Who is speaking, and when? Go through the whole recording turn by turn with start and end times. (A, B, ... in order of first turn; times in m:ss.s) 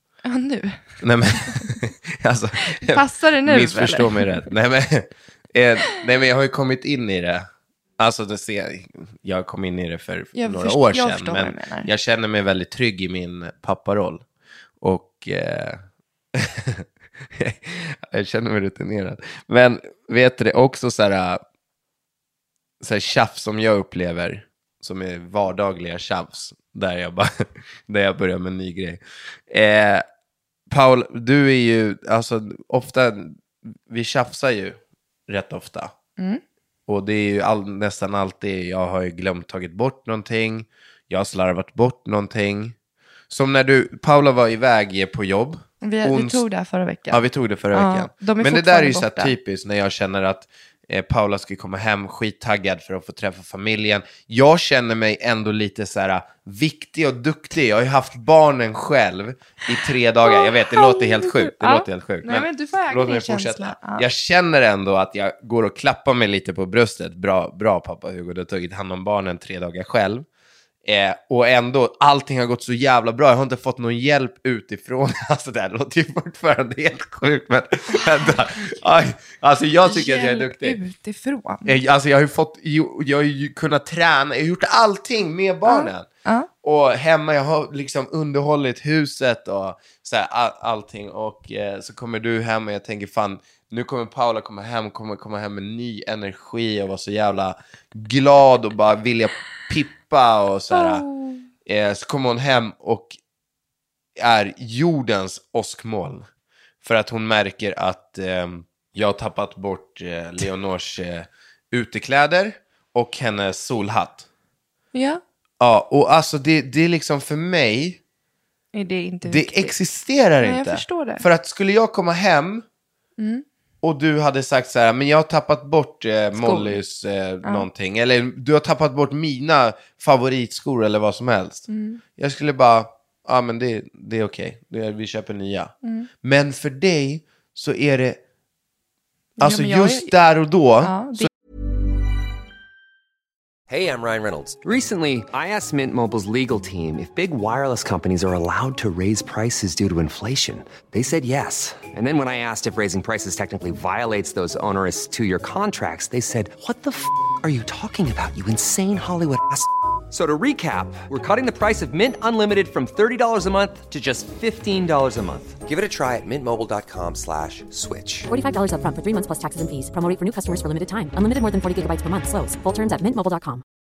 0:00.2-0:01.8 A
0:01.0-0:07.4 B
0:02.6-0:04.4 A
0:08.0-0:14.2 B
0:10.3-0:11.9 A
0:14.8-0:15.8 B
0:16.3-0:21.4 B
0:22.8-0:30.0 B
0:30.7-0:35.9 B
0:36.9-0:42.8 B
0:43.3-0:46.4 B
0:45.8-0:49.3 A
0:47.1-1:10.2 B
1:00.2-1:04.0 A
1:10.8-1:20.8 B
1:18.0-1:18.4 A
1:19.8-1:21.8 A
1:21.6-1:26.1 B
1:25.6-1:26.5 A
1:26.6-1:41.0 B
1:40.7-1:41.4 A
1:41.6-1:43.2 B
1:44.2-1:46.2 B
1:46.8-1:54.3 B
1:54.9-1:55.2 A
1:55.6-1:58.0 B
1:58.7-1:59.7 A
1:59.2-2:02.6 B
2:00.4-2:01.2 A
2:03.2-2:03.4 A
2:03.8-2:18.2 B
2:06.3-2:06.8 A
2:07.4-2:07.7 A
2:11.7-2:12.0 A
2:15.8-2:16.1 A
2:19.4-2:20.1 A
2:19.4-2:21.3 B
2:20.8-2:21.3 A
2:23.7-2:48.3 C
2:48.3-2:53.6 D